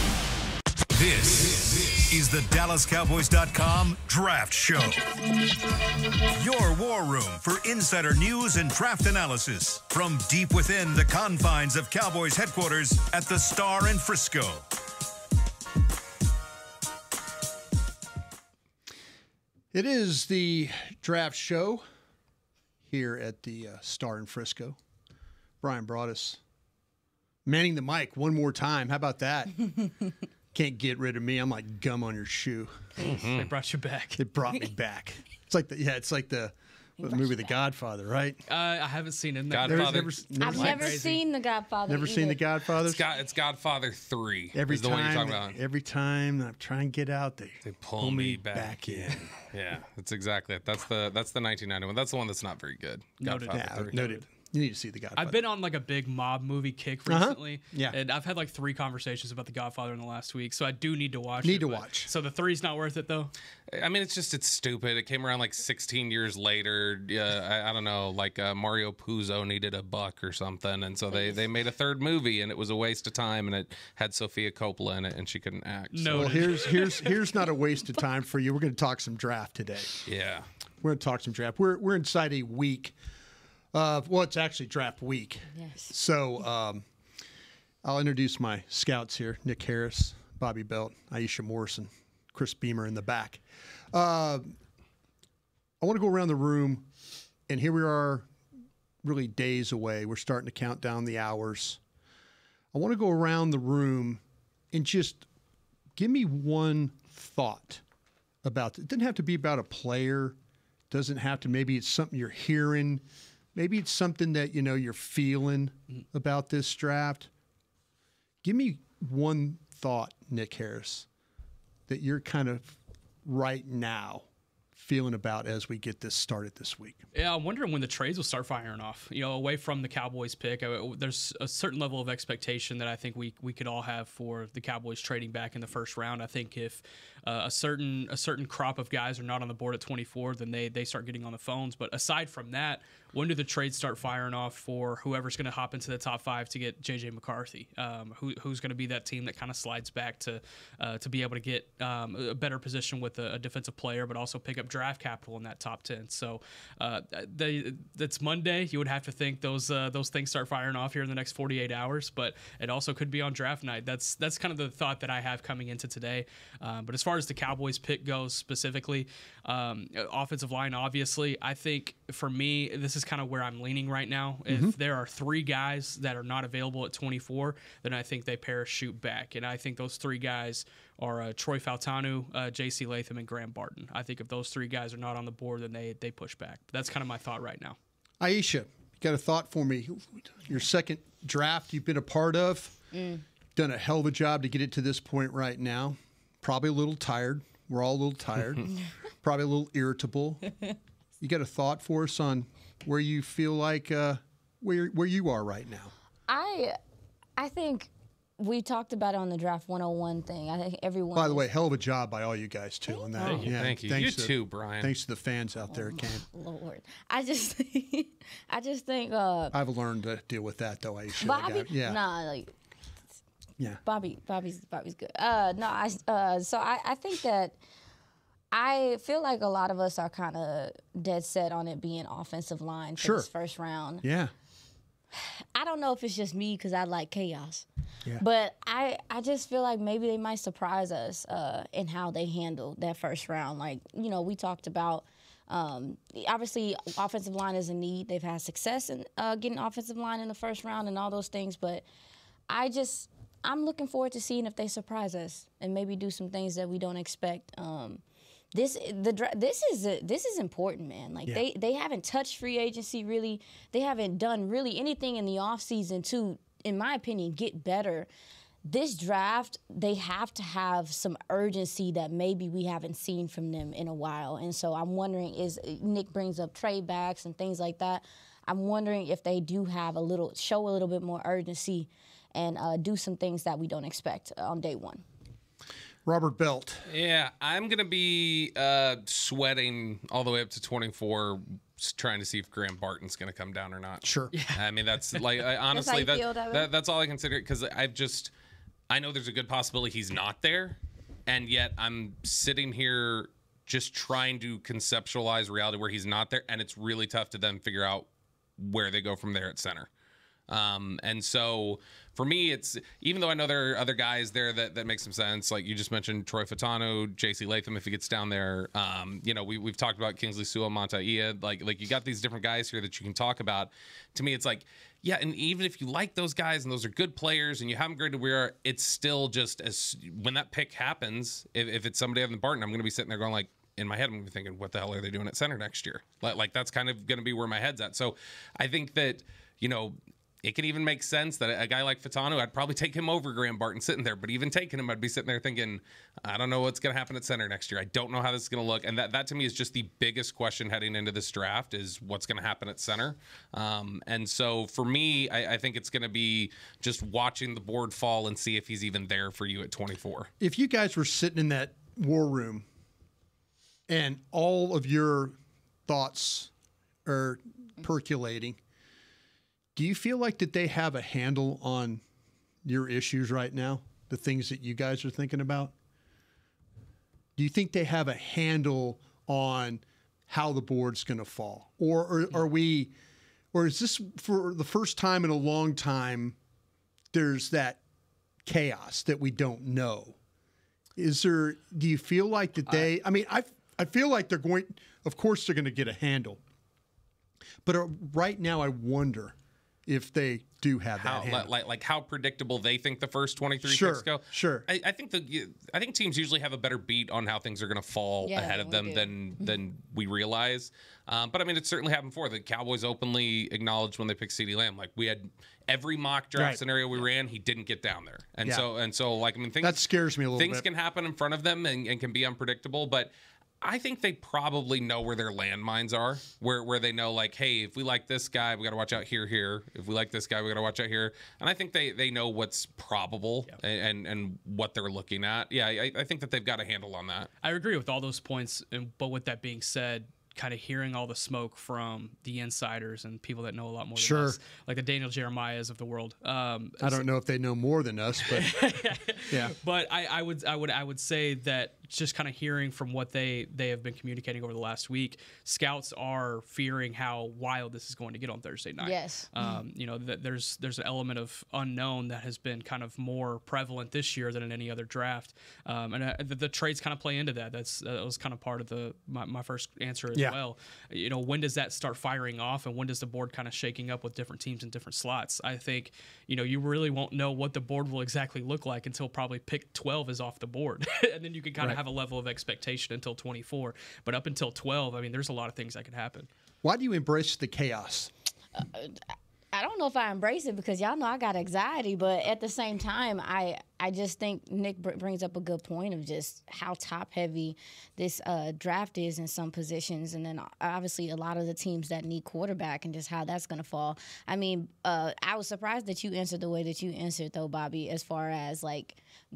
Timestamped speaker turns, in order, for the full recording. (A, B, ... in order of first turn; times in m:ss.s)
0:00.9-0:05.0 A
0:06.3-0:14.6 A
0:19.7-0:21.8 B
0:22.8-0:24.8 B
0:25.6-0:26.4 B
0:27.4-0:29.8 B
0:30.5-0:33.0 B
0:33.0-0:33.5 C
0:33.0-0:34.3 D
0:34.2-0:38.4 B
0:37.0-0:37.5 E
0:38.5-0:41.2 D
0:39.5-0:40.1 C
0:39.6-0:41.0 B
0:40.4-0:42.4 E
0:41.9-0:43.0 B
0:42.8-0:45.6 C
0:44.5-0:49.3 B
0:47.6-0:54.0 C
0:53.2-0:54.2 D
0:53.5-0:55.4 B
0:55.2-1:03.3 D
0:57.1-0:58.0 B
1:01.4-1:02.1 B
1:03.7-1:16.5 C
1:11.1-1:11.4 E
1:15.9-1:17.2 D
1:16.1-1:20.0 B
1:20.0-1:20.5 C
1:20.8-1:22.9 B
1:23.7-1:26.8 B
1:25.5-1:25.9 E
1:27.8-1:34.6 B
1:35.8-1:36.9 B
1:37.5-1:38.3 B
1:39.0-1:41.8 B
1:42.7-1:45.2 B
1:46.0-1:47.8 B
1:48.4-1:50.4 B
1:50.9-1:57.3 B
1:58.4-2:01.1 B
2:01.9-2:07.0 B
2:07.1-3:07.8 D
2:54.5-2:54.7 B
3:08.2-3:12.8 B
3:12.9-3:13.2 E
3:13.6-3:18.7 B
3:19.2-3:20.4 B
3:21.2-3:25.9 B
3:26.3-3:26.8 E
3:27.4-3:31.4 E
3:31.1-3:36.2 B
3:33.2-3:33.6 D
3:33.2-3:34.9 C
3:35.7-3:39.6 E
3:39.5-3:42.0 B
3:41.2-3:42.5 E
3:43.8-3:47.6 E
3:48.5-3:54.0 E
3:53.0-3:53.3 B
3:54.0-3:54.3 B
3:55.1-3:57.6 E
3:58.2-4:11.8 E
4:12.5-4:18.0 E
4:18.5-4:28.1 E
4:28.6-4:45.0 E
4:46.0-4:46.9 B
4:46.9-4:58.3 C
4:54.0-4:54.3 B
4:54.3-4:54.6 D
4:55.7-4:56.7 E
4:58.9-5:09.9 C
5:10.5-6:00.3 C
6:00.4-6:02.6 B
6:03.9-6:06.5 B
6:07.0-6:08.6 B
6:09.8-6:12.0 B
6:12.6-6:15.7 B
6:17.4-6:22.9 B
6:23.5-6:26.4 B
6:27.1-6:27.8 B
6:28.4-6:30.2 B
6:31.0-6:36.4 B
6:37.6-6:39.3 B
6:39.8-6:41.5 B
6:41.0-6:59.8 C
6:43.6-6:44.7 B
6:48.2-6:49.1 E
6:56.3-6:56.6 B
6:59.6-7:00.6 B
7:00.4-7:17.3 C
7:17.4-7:27.0 D
7:24.0-7:24.4 B
7:26.8-7:28.6 B
7:28.2-8:06.3 D
7:29.3-7:29.5 B
7:38.8-7:39.3 E
8:06.6-8:08.1 B
8:08.6-8:29.0 E